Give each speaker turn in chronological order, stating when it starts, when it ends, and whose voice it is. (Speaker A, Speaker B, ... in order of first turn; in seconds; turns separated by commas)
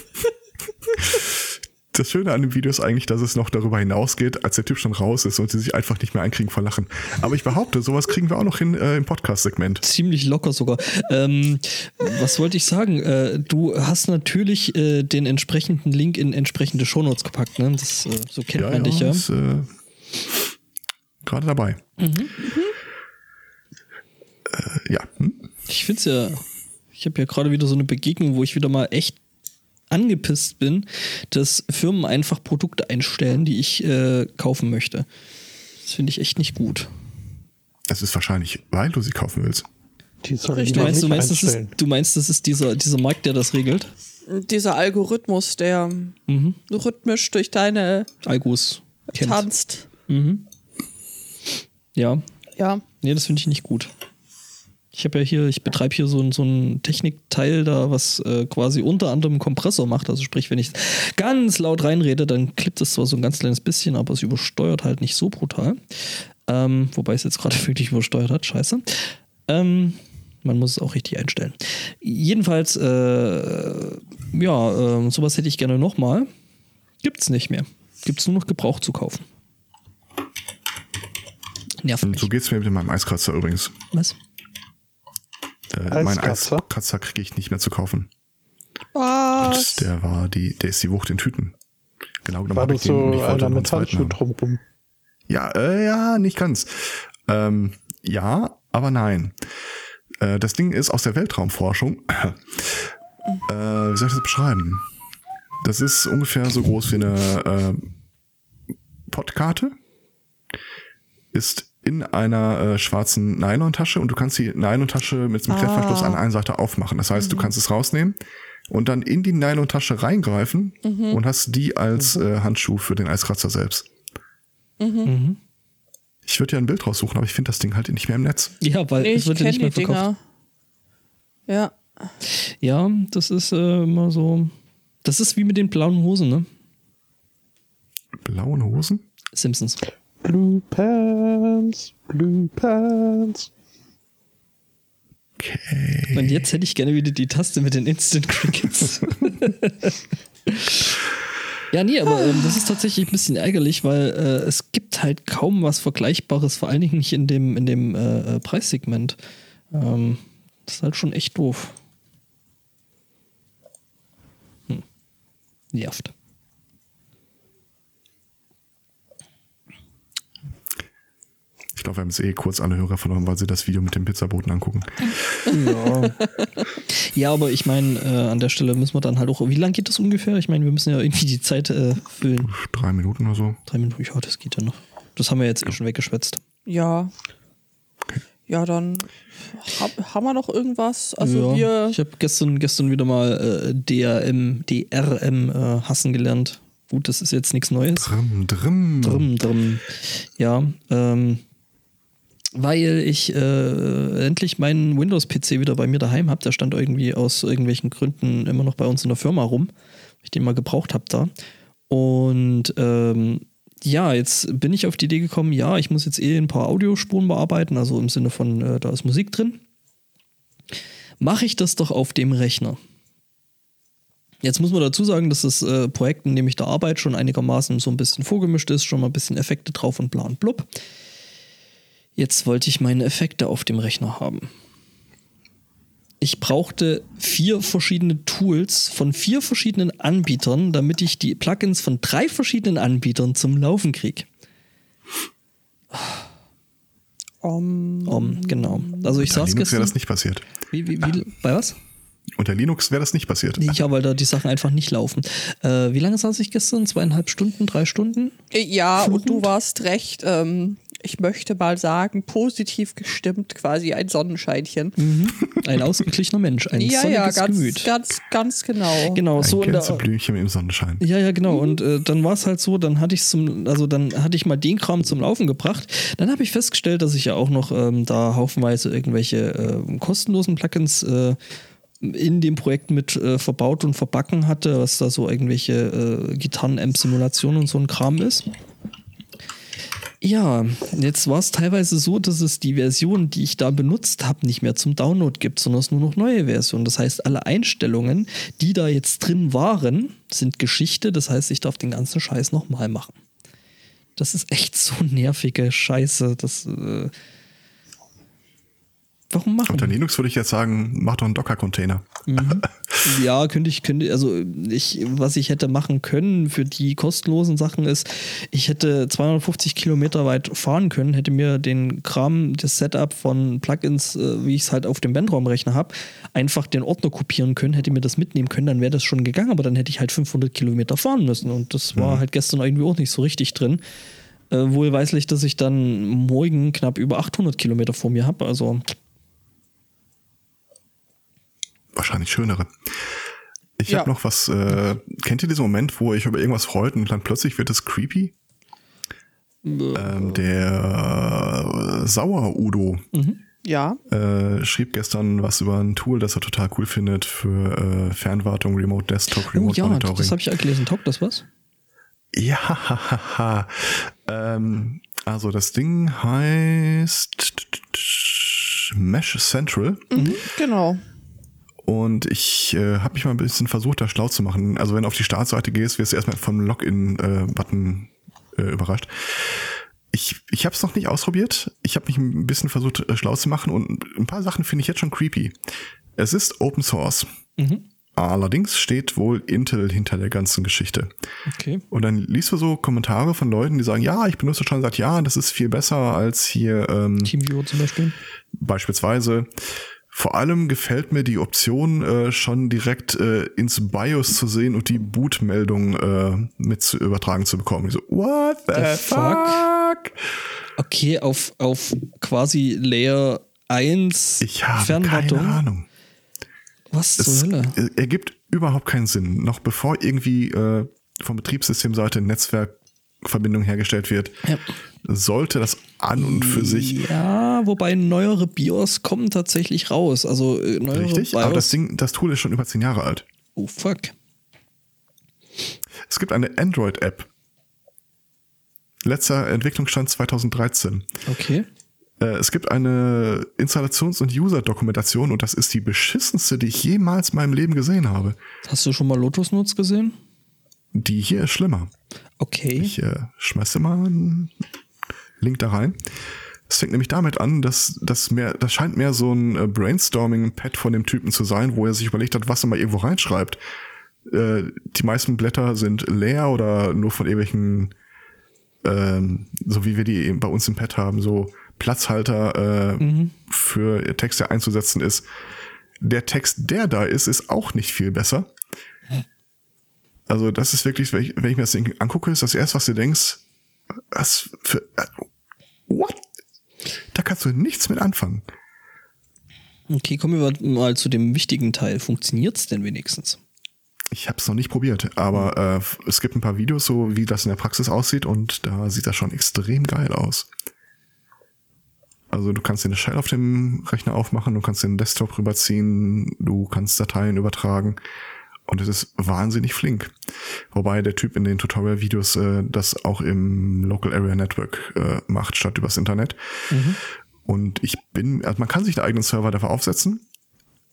Speaker A: 1.0-9.8, Speaker B: 9.8-19.2, Speaker A: 18.6-19.7, Speaker A: 21.2-21.8, Speaker B: 22.0-22.4, Speaker C: 22.4-22.7, Speaker A: 24.5-25.5, Speaker B: 25.7-26.4, Speaker B: 27.0-29.2, Speaker B: 29.9-35.1, Speaker B: 35.8-36.9, Speaker A: 37.9-39.7, Speaker D: 40.2-41.7, Speaker C: 40.5-41.2, Speaker B: 40.7-43.9, Speaker C: 44.3-46.2, Speaker B: 46.3-46.6, Speaker C: 46.7-48.1, Speaker B: 48.2-49.5, Speaker C: 49.1-49.9, Speaker B: 50.1-50.5, Speaker B: 52.0-52.2, Speaker C: 52.6-52.8, Speaker B: 53.0-53.9, Speaker B: 54.9-65.8, Speaker B: 66.5-76.3, Speaker B: 77.0-79.2, Speaker B: 81.8-82.3, Speaker A: 82.0-83.8, Speaker B: 83.9-84.2, Speaker A: 85.7-88.1, Speaker D: 85.9-86.6, Speaker C: 89.0-89.9, Speaker A: 89.4-91.5, Speaker A: 92.2-94.2, Speaker D: 92.5-94.6, Speaker A: 95.3-99.4, Speaker A: 100.2-102.9, Speaker A: 103.5-104.9, Speaker A: 105.6-107.9, Speaker A: 109.1-109.8, Speaker A: 111.3-118.2, Speaker C: 115.5-116.2, Speaker C: 117.2-117.5, Speaker A: 118.7-123.9, Speaker C: 120.8-121.2, Speaker C: 124.8-125.1, Speaker B: 125.0-125.4, Speaker A: 126.3-128.6, Speaker B: 128.6-130.1, Speaker C: 129.0-130.2, Speaker C: 131.5-131.8, Speaker B: 132.3-134.5, Speaker B: 135.0-136.5, Speaker A: 138.2-139.1, Speaker B: 139.3-139.8, Speaker D: 140.2-143.5, Speaker A: 145.4-146.5, Speaker B: 146.1-150.9, Speaker B: 151.7-159.2, Speaker B: 159.7-161.8, Speaker B: 165.7-166.1, Speaker A: 171.8-175.2, Speaker B: 175.5-176.2, Speaker B: 176.9-182.5, Speaker A: 182.4-183.6, Speaker B: 183.7-186.4, Speaker C: 186.7-187.1, Speaker C: 188.5-192.0, Speaker B: 191.2-198.1, Speaker A: 198.0-199.3, Speaker B: 199.0-201.4, Speaker B: 202.6-209.7, Speaker B: 210.2-211.3, Speaker B: 211.9-219.6, Speaker B: 221.2-222.8, Speaker B: 224.4-230.7, Speaker B: 232.2-234.5, Speaker B: 236.2-244.3, Speaker C: 247.4-249.2, Speaker B: 248.1-249.9, Speaker A: 249.2-250.5, Speaker B: 250.7-251.8, Speaker A: 252.4-253.8, Speaker B: 253.6-258.4, Speaker C: 258.5-265.0, Speaker B: 259.0-259.5, Speaker B: 265.0-267.9, Speaker C: 266.7-269.2, Speaker B: 269.1-270.1, Speaker A: 269.4-271.0, Speaker B: 271.0-281.4, Speaker C: 271.5-271.8, Speaker B: 282.0-288.5, Speaker B: 290.2-303.1, Speaker B: 304.2-307.1, Speaker B: 309.3-310.0, Speaker A: 309.7-313.0, Speaker B: 312.3-333.8, Speaker A: 331.9-332.2, Speaker B: 334.5-338.9, Speaker A: 341.9-342.7, Speaker A: 343.8-348.3, Speaker B: 349.6-350.4, Speaker A: 349.9-353.1, Speaker B: 353.1-353.4, Speaker C: 353.6-354.0, Speaker A: 354.1-360.4, Speaker B: 359.5-361.4, Speaker A: 362.3-370.1, Speaker C: 370.1-371.0, Speaker B: 370.1-370.4, Speaker A: 371.9-385.6, Speaker A: 386.2-387.3, Speaker B: 387.6-387.9, Speaker A: 388.2-391.1, Speaker B: 391.5-391.8, Speaker A: 391.9-397.4, Speaker B: 397.2-398.2, Speaker A: 398.5-399.5, Speaker A: 400.1-410.2, Speaker B: 408.7-409.6, Speaker B: 410.8-415.6, Speaker A: 414.4-415.9, Speaker B: 416.9-417.8, Speaker A: 417.2-424.4, Speaker A: 425.0-427.0, Speaker B: 426.2-431.7, Speaker A: 430.9-433.3, Speaker B: 433.6-434.1, Speaker A: 436.1-437.3, Speaker A: 439.0-441.1, Speaker B: 441.3-441.7, Speaker A: 442.2-448.4, Speaker B: 448.6-450.2, Speaker A: 450.9-451.9, Speaker B: 452.4-452.9, Speaker A: 452.8-454.5, Speaker A: 455.4-456.0, Speaker A: 456.7-463.6, Speaker A: 464.3-467.9, Speaker A: 468.8-475.3, Speaker B: 473.0-473.3, Speaker A: 476.0-478.5, Speaker A: 480.3-483.4, Speaker A: 484.1-485.2, Speaker A: 485.9-486.2, Speaker A: 487.1-488.4, Speaker B: 489.9-493.4, Speaker A: 494.1-500.5, Speaker A: 502.3-508.0, Speaker A: 508.7-510.1, Speaker A: 510.7-516.4, Speaker B: 516.7-517.0, Speaker A: 517.5-520.2